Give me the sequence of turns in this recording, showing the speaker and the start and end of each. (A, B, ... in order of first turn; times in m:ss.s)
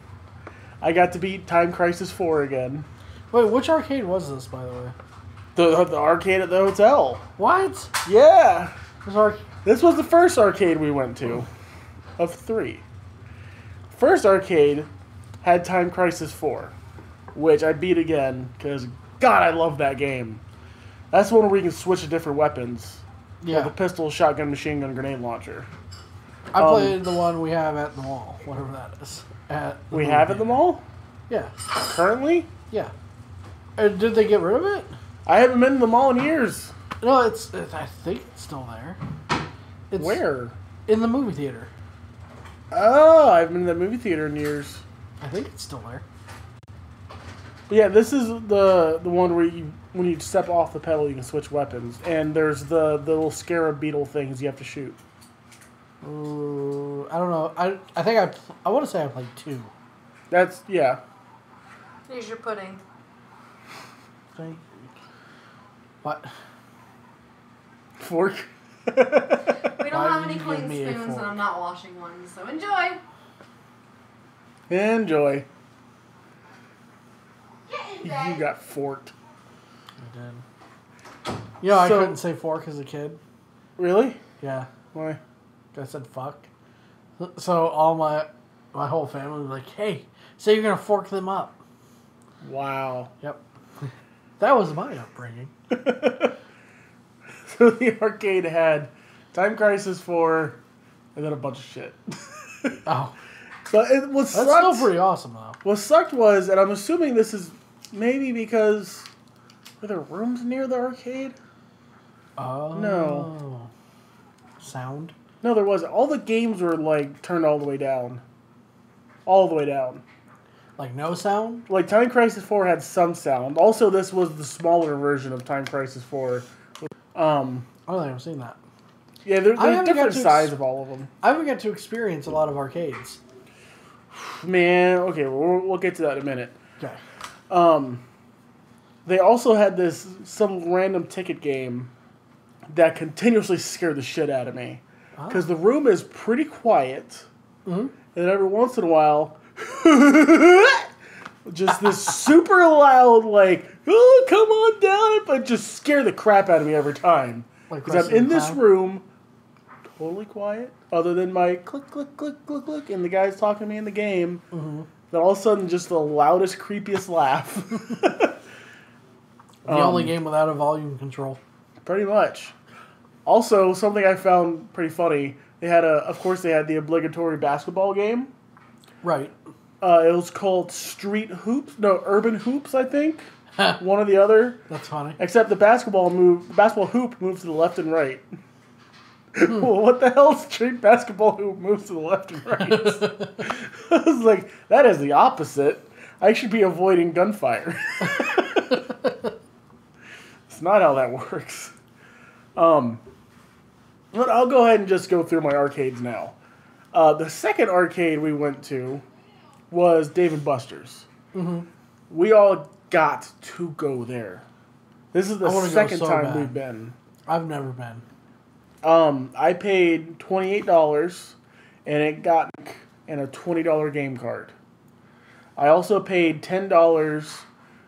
0:00.8-0:02.8 A
0:03.3-0:04.9 B
0:05.6-0:07.2 A
0:07.4-0:07.9 B
0:08.0-0:08.7 A
0:09.0-0:09.4 B
0:09.6-0:11.5 A
0:12.2-0:12.8 A
0:13.9-0:14.9 A
0:15.4-0:16.7 A
0:17.3-0:20.4 A
0:21.1-0:25.7 A
0:23.4-0:23.7 B
0:26.5-0:30.6 B
0:26.5-0:27.2 A
0:29.9-0:30.8 A
0:31.3-0:31.7 B
0:31.8-0:32.5 A
0:33.8-0:34.9 B
0:35.2-0:36.7 A
0:37.0-0:39.0 B
0:39.9-0:40.2 B
0:40.0-0:40.6 A
0:40.9-0:41.7 B
0:42.7-0:44.8 A
0:45.2-0:46.0 B
0:47.7-0:55.0 A
0:56.0-0:59.7 B
1:00.3-1:01.0 A
1:02.1-1:02.8 C
1:04.3-1:04.9 B
1:06.0-1:06.3 B
1:08.0-1:09.5 A
1:09.8-1:13.0 C
1:09.9-1:11.4 B
1:14.7-1:15.4 A
1:17.7-1:18.4 C
1:18.0-1:19.1 A
1:20.0-1:20.4 B
1:21.6-1:23.2 B
1:21.7-1:22.2 A
1:23.8-1:24.2 A
1:24.4-1:24.7 B
1:24.9-1:25.2 A
1:25.7-1:26.5 B
1:27.2-1:31.6 B
1:32.4-1:33.1 A
1:33.2-1:33.9 B
1:34.4-1:35.5 B
1:35.7-1:36.3 A
1:37.4-1:40.6 A
1:41.1-1:42.8 A
1:42.8-1:43.1 B
1:43.7-1:44.9 A
1:44.3-1:45.6 B
1:45.6-1:49.1 A
1:49.8-1:51.3 A
1:52.4-1:53.7 B
1:52.7-1:53.3 A
1:54.6-1:55.1 B
1:55.4-1:58.2 A
1:59.2-2:00.0 A
2:00.8-2:01.7 B
2:01.7-2:07.7 A
2:07.9-2:08.6 B
2:09.2-2:11.1 A
2:09.6-2:10.5 B
2:11.2-2:13.2 B
2:14.1-2:16.5 A
2:17.5-2:18.0 A
2:19.0-2:21.9 A
2:22.7-2:27.3 A
2:25.2-2:25.5 B
2:27.6-2:27.9 B
2:28.1-2:30.9 A
2:31.4-2:39.0 A
2:37.7-2:38.6 B
2:40.0-2:44.4 A
2:44.5-2:44.9 B
2:45.1-2:48.4 A
2:49.6-2:50.1 A
2:49.6-2:51.4 B
2:51.8-2:52.5 A
2:53.2-2:58.3 A
2:59.0-2:59.3 B
2:59.8-3:03.3 A
3:03.8-3:04.6 A
3:04.7-3:05.2 B
3:05.2-3:08.2 A
3:09.3-3:18.8 A
3:12.6-3:13.4 B
3:20.5-3:21.8 A
3:22.5-3:23.0 A
3:24.1-3:26.3 A
3:26.9-3:29.0 A
3:29.7-3:31.0 A
3:31.3-3:31.7 B
3:32.1-3:34.4 A
3:35.1-3:37.0 A
3:35.4-3:36.5 B
3:37.3-3:38.0 B
3:38.8-3:44.5 A
3:45.6-3:47.4 A